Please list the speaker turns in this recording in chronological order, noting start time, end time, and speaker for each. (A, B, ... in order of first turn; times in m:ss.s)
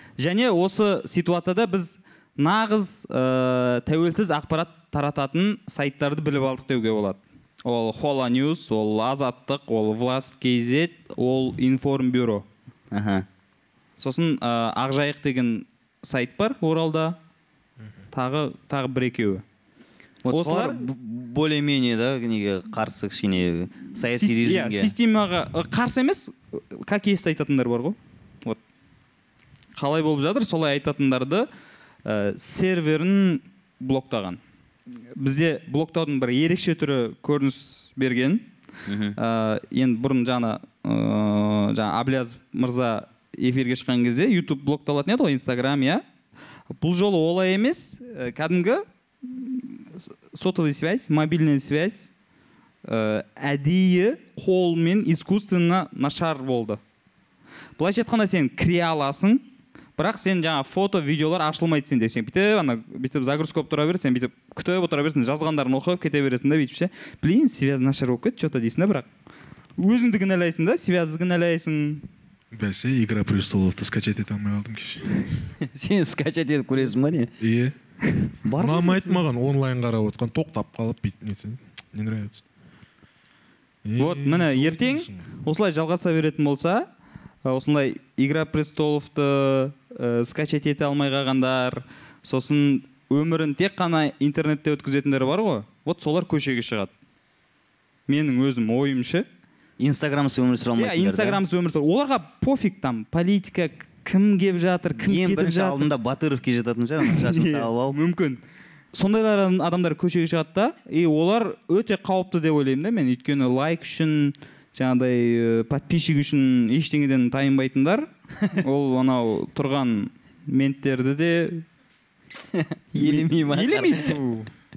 0:00.2-0:12.4 A
0:12.9-0:13.2 B
0:14.0-0:17.2 A
0:18.1-0:19.4 A
0:20.2-0:24.9 B
0:20.3-0:20.8 A
0:24.1-0:28.6 A
0:29.8-0:31.5 A
0:32.0-0:34.4 A
0:35.2-0:38.4 A
0:38.9-0:39.2 B
0:39.2-0:46.0 A
0:46.8-0:52.1 A
0:52.8-0:56.8 A
0:57.8-0:59.4 A
1:00.0-1:09.1 A
1:09.8-1:12.0 A
1:12.5-1:15.2 C
1:15.6-1:17.3 B
1:17.4-1:17.8 C
1:18.4-1:19.2 B
1:18.6-1:22.4 C
1:23.8-1:25.3 C
1:24.0-1:26.9 A
1:27.4-1:36.9 A
1:38.1-1:39.2 A
1:39.8-1:41.4 B
1:40.8-1:45.9 A
1:45.0-1:48.0 B
1:47.0-1:48.4 A
1:48.9-2:01.6 A
2:02.5-2:04.1 B
2:03.0-2:04.5 A